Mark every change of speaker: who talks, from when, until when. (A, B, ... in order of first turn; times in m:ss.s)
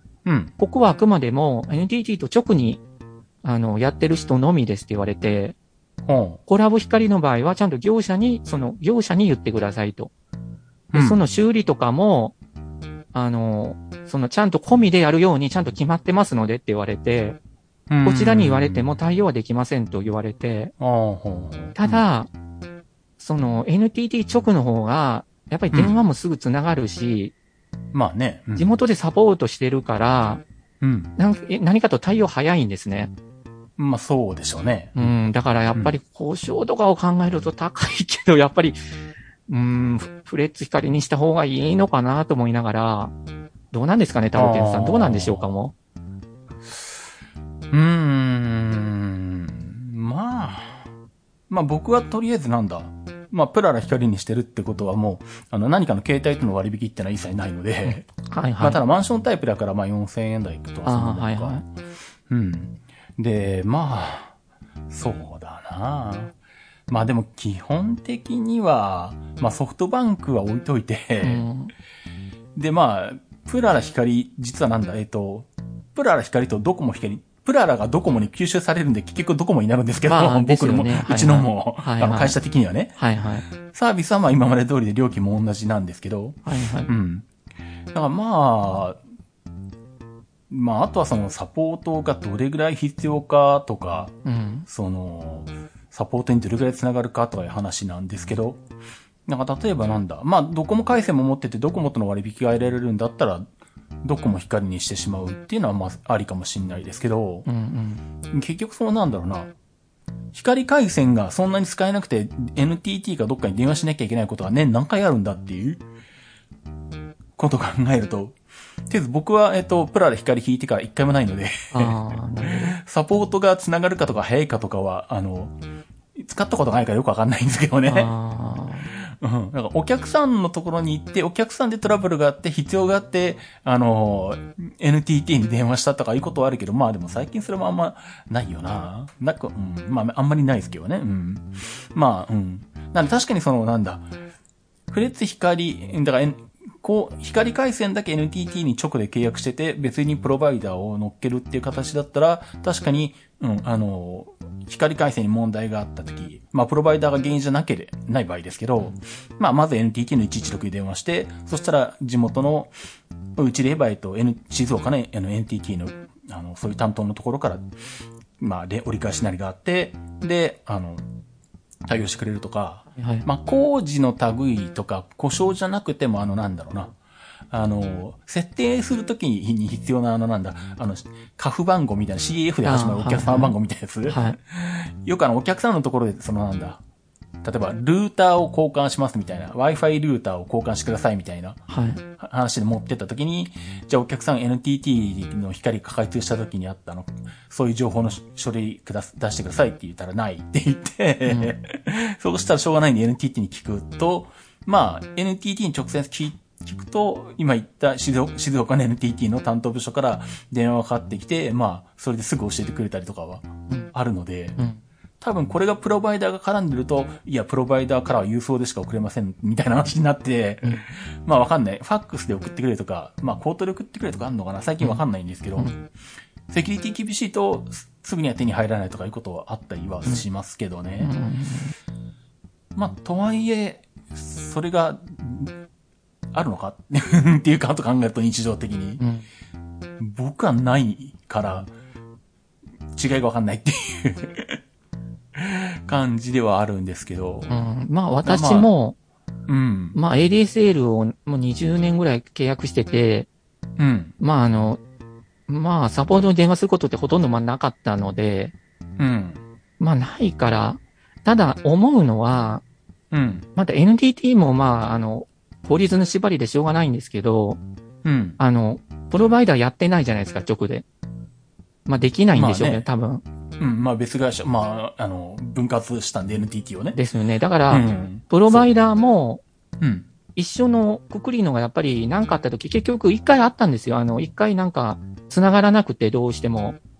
0:00.2-0:00.5 A
0:00.6-0:02.8 B
0:03.4-0:05.6 B
0:06.0-0:06.4 A
0:06.5-0:10.1 B
0:10.9-0:11.2 A
0:10.9-0:12.3 B
0:13.1-0:17.4 B
0:17.9-0:19.0 A
0:18.0-0:20.7 B
0:20.8-0:22.0 A
0:21.8-0:22.3 B
0:23.2-0:27.3 B
0:27.9-0:28.7 A
0:28.5-0:30.4 B
0:30.8-0:31.1 A
0:31.2-0:33.1 B
0:33.8-0:35.1 A
0:35.0-0:38.8 B
0:39.5-0:43.1 B
0:43.7-0:45.7 B
0:44.3-0:45.5 A
0:47.7-0:50.9 A
0:51.5-0:58.1 A
0:57.8-0:58.8 B
0:58.6-1:01.6 A
1:00.8-1:01.6 B
1:02.3-1:04.3 A
1:04.9-1:06.3 A
1:06.9-1:11.4 A
1:11.2-1:11.7 B
1:12.6-1:23.0 A
1:20.1-1:22.4 B
1:23.0-1:23.4 B
1:23.6-1:27.3 A
1:26.4-1:26.9 B
1:27.9-1:29.0 A
1:30.5-1:34.1 A
1:34.2-1:34.7 B
1:34.7-1:38.6 A
1:39.3-1:43.5 A
1:44.0-1:47.4 A
1:47.4-1:48.0 B
1:48.3-1:49.5 A
1:50.3-1:55.8 A
1:57.4-1:58.4 A
1:58.9-2:05.5 A
2:01.7-2:02.8 B
2:06.2-2:08.1 A
2:07.9-2:08.9 B
2:08.9-2:24.1 A
2:24.9-2:42.7 A
2:43.4-2:47.6 A
2:48.4-2:51.0 A
2:51.8-2:56.9 A
2:53.0-2:53.2 B
2:57.5-3:06.8 A
3:02.6-3:03.5 B
3:04.0-3:04.4 B
3:07.4-3:11.6 A
3:11.7-3:12.0 B
3:12.2-3:34.6 A
3:21.2-3:21.5 B
3:35.2-3:45.8 A
3:46.5-3:51.1 A
3:51.0-3:51.7 B
3:52.7-3:55.5 A
3:56.3-3:59.0 A
3:59.0-3:59.2 B
4:00.0-4:01.7 A
4:02.9-4:04.6 A
4:05.3-4:07.6 A
4:07.5-4:09.0 B
4:08.2-4:08.7 A
4:09.5-4:10.0 A
4:09.9-4:13.3 B
4:13.8-4:14.1 A
4:14.2-4:14.8 B
4:15.5-4:18.5 B
4:19.0-4:19.4 A
4:19.8-4:22.6 B
4:23.1-4:23.5 A
4:23.6-4:27.6 B
4:28.0-4:28.4 A
4:28.4-4:30.8 B
4:31.8-4:33.2 B
4:32.3-4:32.8 A
4:33.6-4:37.0 A
4:36.9-4:39.4 B
4:37.7-4:38.7 A
4:39.8-4:40.1 A
4:40.3-4:46.8 B